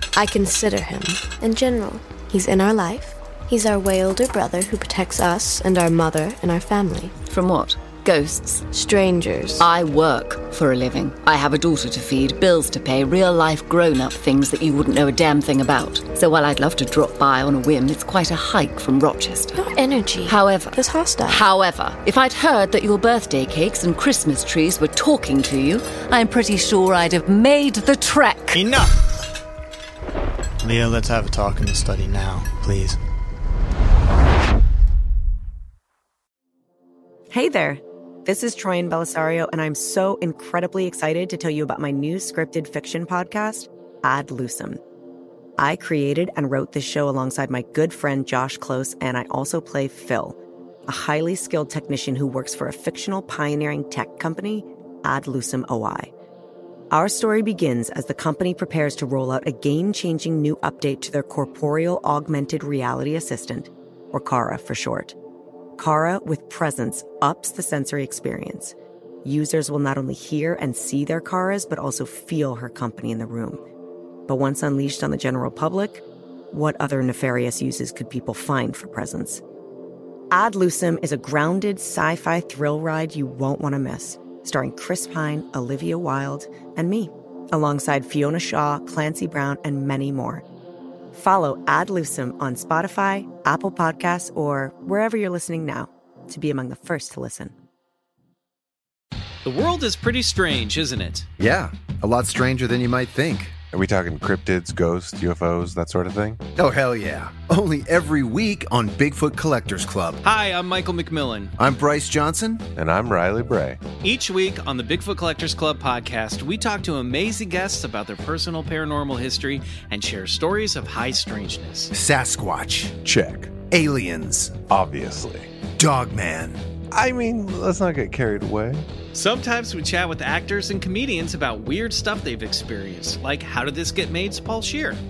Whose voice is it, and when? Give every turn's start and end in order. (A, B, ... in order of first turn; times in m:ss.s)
0:00.2-0:07.1 A
0:07.2-0:08.7 B
0:08.7-0:09.7 A
0:09.6-0:19.6 B
0:19.5-0:21.5 A
0:20.2-0:28.6 B
0:28.5-0:28.9 C
0:30.6-0:33.0 C
0:37.3-0:44.8 D
0:45.6-0:56.1 D
0:56.9-1:05.1 D
1:05.8-1:13.6 D
1:14.3-1:19.4 D
1:20.3-1:30.4 D
1:31.1-1:37.5 D
1:39.4-1:41.3 E
1:41.4-1:43.6 F
1:43.6-1:46.4 G
1:46.6-1:50.2 F
1:50.2-1:51.5 E
1:51.6-1:52.7 F
1:52.8-1:53.8 G
1:54.0-2:01.9 E
2:01.9-2:04.6 F
2:03.0-2:03.6 G
2:04.6-2:05.5 G
2:05.8-2:06.6 F
2:06.9-2:08.9 G
2:09.1-2:15.0 E